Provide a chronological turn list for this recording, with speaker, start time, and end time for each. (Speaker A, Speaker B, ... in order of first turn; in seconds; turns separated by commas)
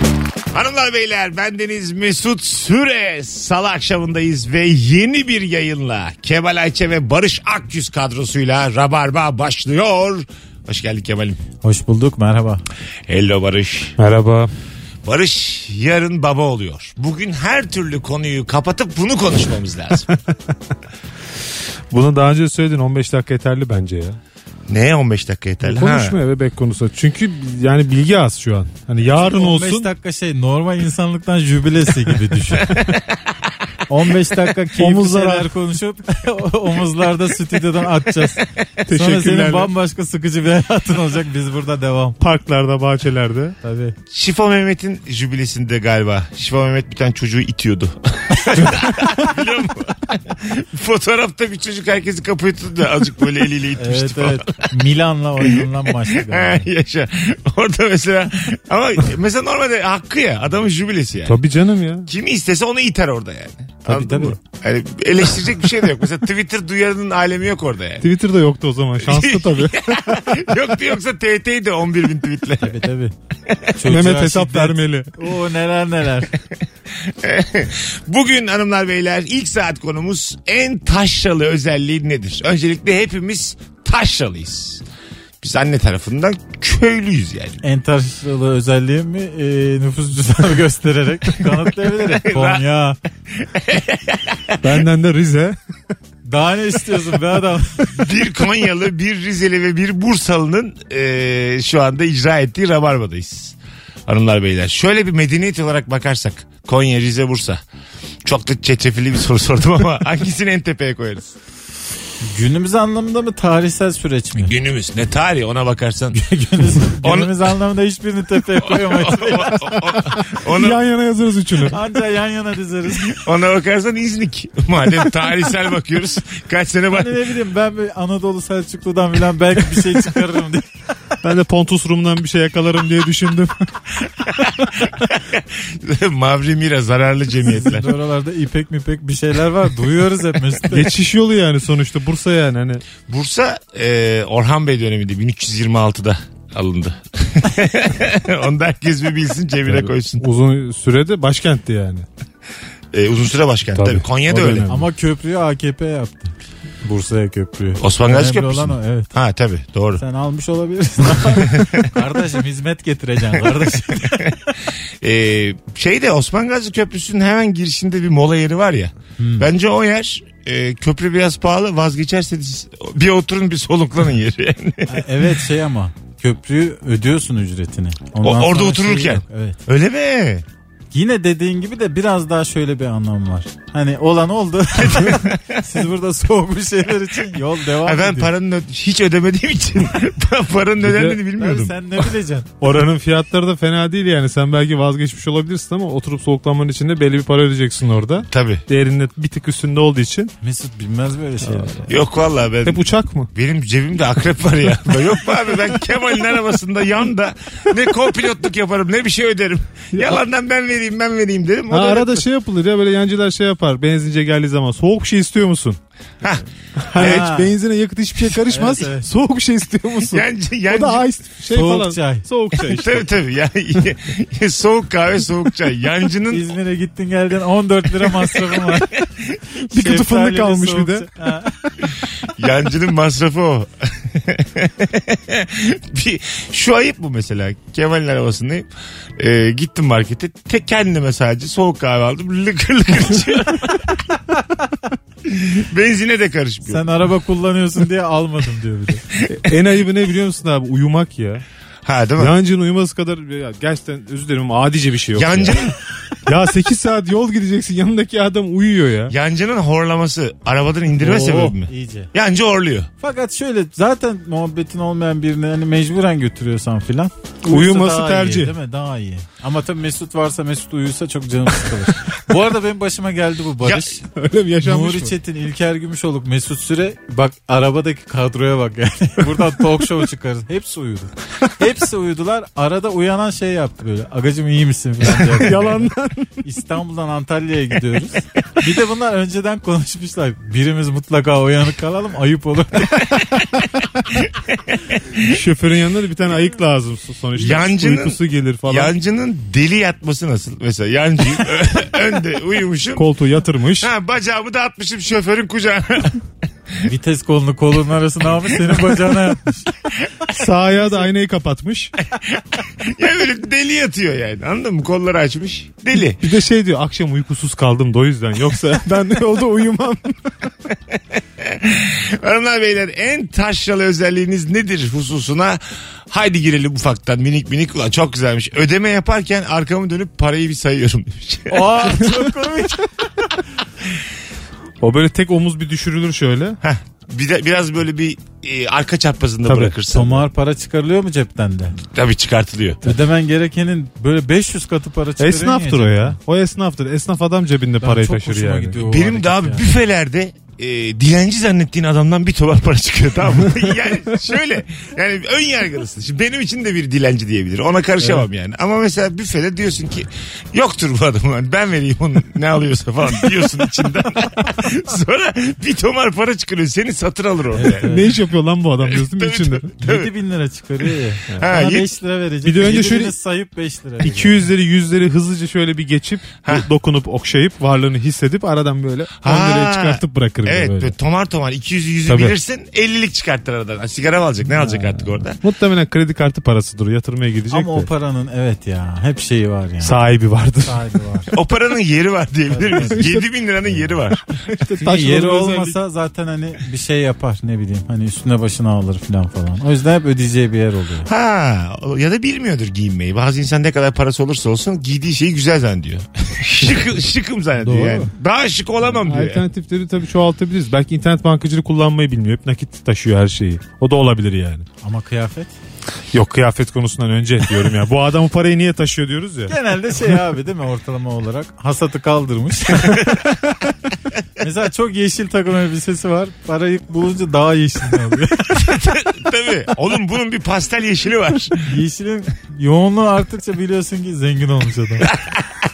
Speaker A: 0.5-11.4, Speaker B: 11.6-12.7, Speaker A: 13.1-14.0, Speaker C: 14.0-14.5, Speaker A: 15.0-20.1, Speaker C: 21.9-24.2, Speaker A: 24.7-26.2, Speaker C: 25.6-29.9, Speaker B: 29.1-32.8, Speaker A: 32.6-33.4, Speaker B: 33.9-42.2, Speaker C: 34.8-35.5, Speaker A: 38.4-38.7, Speaker C: 38.8-39.7, Speaker C: 42.2-43.6, Speaker B: 43.6-44.0, Speaker A: 44.1-54.7, Speaker B: 53.8-56.7, Speaker A: 55.4-61.4, Speaker C: 61.3-62.1, Speaker A: 62.1-68.0, Speaker B: 63.9-64.4, Speaker C: 68.0-70.5, Speaker A: 69.0-72.8, Speaker B: 72.6-73.1, Speaker A: 73.5-73.8, Speaker B: 73.8-76.3, Speaker C: 73.8-75.1, Speaker A: 76.9-84.8, Speaker A: 85.4-87.6, Speaker B: 87.6-93.0, Speaker A: 91.9-92.6, Speaker A: 93.3-94.8, Speaker C: 94.6-95.6, Speaker B: 96.2-97.9, Speaker A: 97.9-107.6, Speaker A: 108.2-111.3, Speaker B: 112.2-114.5, Speaker A: 114.4-116.2, Speaker B: 116.1-119.7, Speaker A: 117.0-117.5, Speaker A: 118.6-120.8, Speaker C: 119.5-121.8, Speaker B: 121.7-123.2, Speaker A: 123.1-127.2, Speaker B: 126.9-130.8, Speaker C: 131.2-133.8, Speaker A: 134.1-137.9, Speaker B: 137.4-140.9, Speaker C: 140.7-142.8, Speaker A: 143.1-150.2, Speaker C: 149.7-152.1, Speaker A: 152.9-154.6, Speaker C: 153.7-154.8, Speaker B: 154.6-159.1, Speaker A: 157.8-160.0, Speaker B: 159.9-164.4, Speaker A: 161.4-161.9, Speaker A: 164.1-164.4, Speaker A: 165.0-175.0, Speaker B: 169.2-169.5, Speaker B: 174.9-179.6, Speaker A: 178.2-180.4, Speaker B: 180.9-188.3, Speaker A: 184.8-185.7, Speaker A: 187.8-191.8, Speaker C: 190.8-191.2, Speaker B: 191.3-192.5, Speaker C: 192.6-200.3, Speaker A: 198.2-198.6, Speaker B: 200.4-202.0, Speaker C: 201.4-201.7, Speaker A: 201.9-202.8, Speaker C: 202.6-203.3, Speaker A: 203.3-212.2, Speaker C: 209.9-210.2, Speaker C: 211.7-215.8, Speaker C: 216.8-223.1, Speaker A: 216.9-217.3, Speaker B: 216.9-217.5, Speaker B: 218.5-219.1, Speaker A: 220.1-221.0, Speaker B: 221.5-222.2, Speaker A: 222.6-226.5, Speaker B: 226.3-229.0, Speaker C: 229.7-231.1, Speaker B: 229.7-231.7, Speaker A: 232.3-244.0, Speaker A: 245.2-246.9, Speaker B: 246.7-249.0, Speaker A: 249.1-249.6, Speaker C: 249.3-251.4, Speaker A: 251.8-252.3, Speaker C: 252.2-255.6, Speaker A: 255.2-255.8, Speaker C: 256.2-259.1, Speaker A: 259.1-262.9, Speaker B: 261.0-262.1, Speaker B: 263.0-274.0, Speaker C: 267.5-268.5, Speaker A: 273.6-274.0, Speaker C: 274.1-275.1, Speaker B: 274.6-293.2, Speaker C: 285.1-286.3, Speaker A: 293.2-295.4, Speaker C: 295.2-298.9, Speaker A: 297.4-303.1, Speaker C: 302.9-303.9, Speaker A: 303.8-306.2, Speaker B: 306.9-309.8, Speaker A: 308.5-308.8, Speaker A: 309.9-310.4, Speaker C: 310.4-312.0, Speaker A: 312.1-316.2, Speaker C: 316.2-320.2, Speaker A: 320.9-332.1, Speaker B: 331.5-332.9, Speaker C: 334.8-336.6, Speaker A: 336.6-340.3, Speaker C: 339.5-339.8, Speaker B: 339.9-341.8, Speaker A: 341.8-342.9, Speaker B: 342.8-346.2, Speaker C: 345.2-348.8, Speaker B: 347.8-349.6, Speaker A: 348.8-368.0, Speaker B: 358.0-358.2, Speaker B: 367.5-368.1, Speaker C: 367.8-369.7, Speaker A: 368.8-370.1, Speaker B: 369.8-374.5, Speaker A: 371.4-371.9, Speaker C: 372.4-373.1, Speaker C: 374.0-380.9, Speaker A: 379.2-385.4, Speaker C: 382.1-382.3, Speaker C: 384.7-387.9, Speaker B: 387.5-390.0, Speaker C: 389.8-390.9, Speaker B: 390.6-391.3, Speaker A: 391.3-394.2, Speaker B: 392.5-393.1, Speaker C: 394.5-395.8, Speaker B: 394.5-401.1, Speaker A: 401.1-409.4, Speaker B: 407.6-408.1, Speaker C: 407.7-408.0, Speaker C: 409.0-414.7, Speaker B: 414.8-415.5, Speaker C: 416.1-419.5, Speaker B: 419.5-423.4, Speaker B: 424.4-428.7, Speaker A: 428.5-431.8, Speaker B: 431.6-435.1, Speaker A: 435.1-435.5